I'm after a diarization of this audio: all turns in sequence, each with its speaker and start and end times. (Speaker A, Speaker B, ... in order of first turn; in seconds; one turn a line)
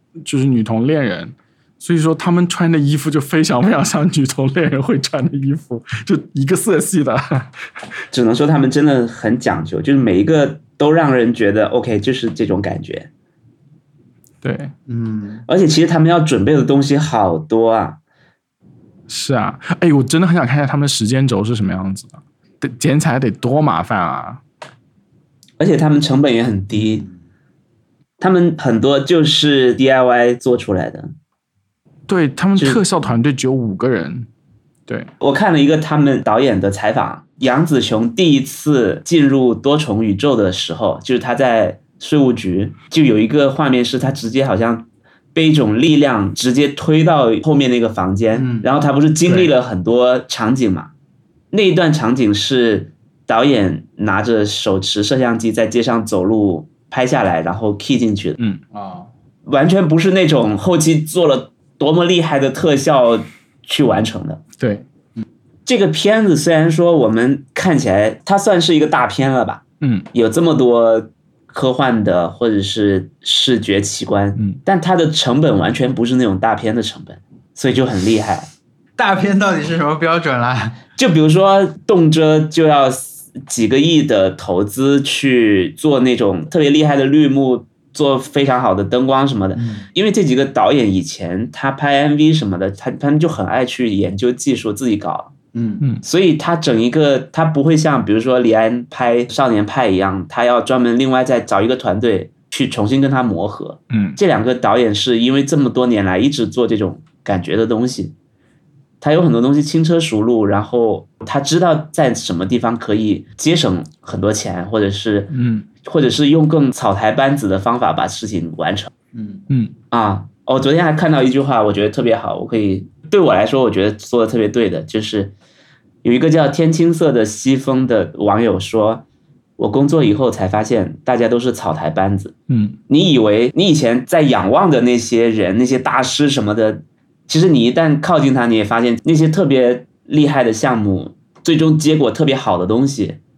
Speaker A: 0.2-7.5
Speaker B: 8.1-13.1
Speaker A: 14.4-14.7
Speaker C: 14.9-15.4
Speaker B: 15.5-18.0
Speaker A: 19.1-24.4
Speaker B: 25.6-27.0
Speaker C: 26.8-27.1
Speaker B: 28.2-31.1
Speaker A: 32.1-34.3
Speaker B: 35.2-50.9
Speaker C: 48.3-48.7
Speaker B: 51.5-58.4
Speaker C: 58.7-59.1
Speaker B: 59.5-64.4
Speaker A: 64.6-64.8
Speaker B: 65.7-78.5
Speaker A: 69.8-70.1
Speaker C: 79.0-80.8
Speaker B: 81.0-95.3
Speaker C: 89.5-89.9
Speaker C: 95.5-95.8
Speaker B: 96.0-108.1
Speaker A: 103.9-104.2
Speaker B: 109.0-118.9
Speaker A: 115.3-115.7
Speaker C: 119.1-119.4
Speaker B: 119.9-125.3
Speaker B: 126.0-129.0
Speaker B: 129.6-132.3
Speaker A: 132.5-132.8
Speaker B: 132.9-143.2